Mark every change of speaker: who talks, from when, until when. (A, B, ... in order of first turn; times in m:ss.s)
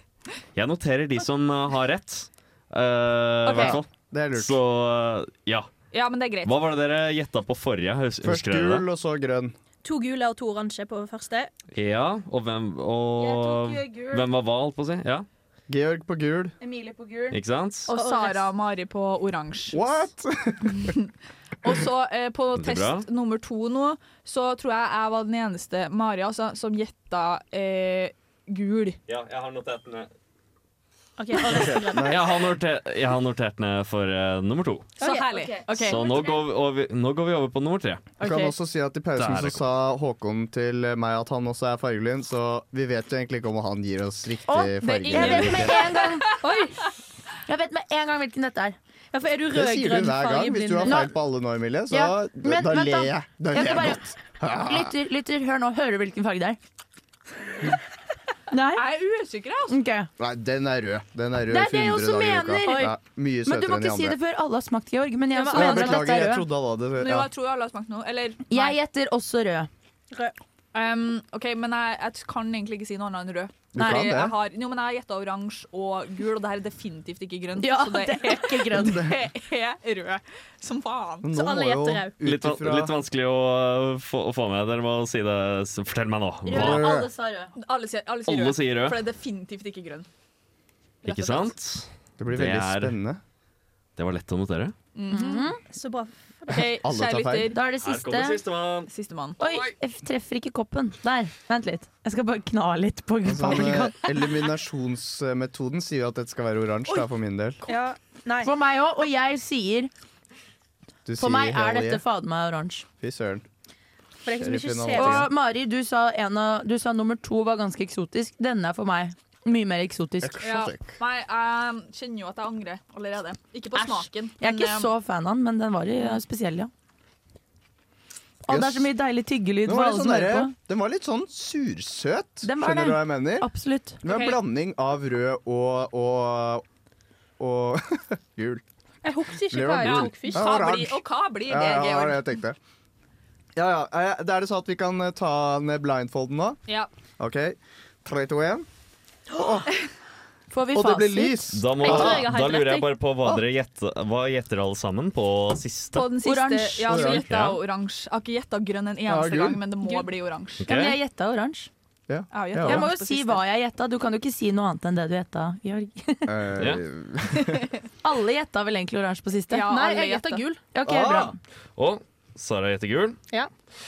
0:00.5-0:05.7 A
0:03.4-0:03.8 B
0:03.6-0:04.6 C
0:05.9-0:06.5 B
0:06.4-0:08.8 A
0:08.2-0:09.5 C
0:09.8-0:11.5 D
0:11.7-0:15.2 A
0:13.2-0:14.2 E
0:15.7-0:16.6 C
0:16.6-0:17.4 E
0:17.3-0:17.9 A
0:17.8-0:20.0 B
0:17.9-0:18.4 D
0:19.7-0:20.9 C
0:20.7-0:21.1 B
0:21.6-0:29.0 B
0:22.6-0:23.0 A
0:29.1-0:30.1 A
0:31.2-0:32.1 D
0:31.5-0:32.3 C
0:32.0-0:34.9 A
0:35.0-0:36.3 B
0:35.0-0:35.2 D
0:35.3-0:36.4 E
0:35.7-0:38.2 A
0:38.2-0:38.5 B
0:38.2-0:45.8 C
0:39.2-0:39.6 A
0:44.5-0:46.3 E
0:44.8-0:46.4 B
0:46.4-0:46.8 D
0:47.5-0:48.8 E
0:49.1-0:51.0 D
0:49.5-0:54.9 C
0:50.8-0:51.1 E
0:51.9-0:54.0 E
0:54.6-0:56.6 E
0:58.5-0:58.8 E
0:58.8-0:59.8 B
0:59.7-1:00.1 E
1:00.2-1:04.2 C
1:01.5-1:02.9 E
1:02.6-1:02.9 D
1:03.4-1:06.4 E
1:05.3-1:06.0 D
1:05.5-1:07.3 C
1:07.0-1:08.7 B
1:08.5-1:09.7 E
1:10.7-1:21.3 B
1:13.7-1:14.3 C
1:17.6-1:19.0 E
1:18.8-1:19.1 C
1:21.2-1:22.9 C
1:21.3-1:22.2 D
1:22.2-1:26.9 A
1:26.5-1:27.5 E
1:26.5-1:27.1 C
1:27.6-1:30.1 B
1:28.3-1:29.0 A
1:31.0-1:31.5 B
1:31.0-1:33.0 A
1:32.2-1:33.2 C
1:34.0-1:34.7 A
1:34.9-1:35.4 B
1:35.1-1:35.6 E
1:35.7-1:36.6 D
1:36.5-1:37.6 B
1:36.6-1:37.5 C
1:37.5-1:38.4 E
1:37.7-1:38.9 A
1:38.9-1:39.4 B
1:39.4-1:44.0 E
1:39.4-1:39.7 A
1:43.2-1:47.6 C
1:47.7-1:48.5 D
1:48.4-1:49.9 E
1:51.0-1:52.0 C
1:51.2-1:52.8 E
1:53.0-1:53.4 C
1:54.2-1:55.2 D
1:54.3-1:55.3 C
1:54.9-2:00.4 E
2:00.2-2:01.0 C
2:00.4-2:04.9 B
2:03.7-2:06.7 E
2:08.4-2:10.5 E
2:08.5-2:08.9 C
2:09.6-2:13.5 C
2:12.4-2:14.0 E
2:14.0-2:16.6 C
2:14.0-2:14.4 B
2:17.4-2:18.6 C
2:19.0-2:20.7 D
2:19.5-2:22.6 C
2:19.8-2:22.3 B
2:23.5-2:26.6 C
2:27.2-2:28.6 C
2:29.3-2:29.7 C
2:30.5-2:31.5 E
2:30.7-2:32.3 C
2:31.5-2:36.1 A
2:31.8-2:32.9 D
2:35.9-2:40.7 B
2:36.2-2:37.2 E
2:36.9-2:37.2 C
2:37.1-2:37.6 A
2:39.1-2:39.6 C
2:40.6-2:41.0 A
2:40.6-2:41.7 E
2:42.1-2:42.9 C
2:42.3-2:43.4 B
2:42.6-2:46.3 E
2:46.2-2:47.7 C
2:48.0-2:49.7 E
2:49.5-2:50.4 B
2:49.6-2:50.6 D
2:50.7-2:51.4 E
2:50.8-2:51.3 C
2:51.8-2:53.2 A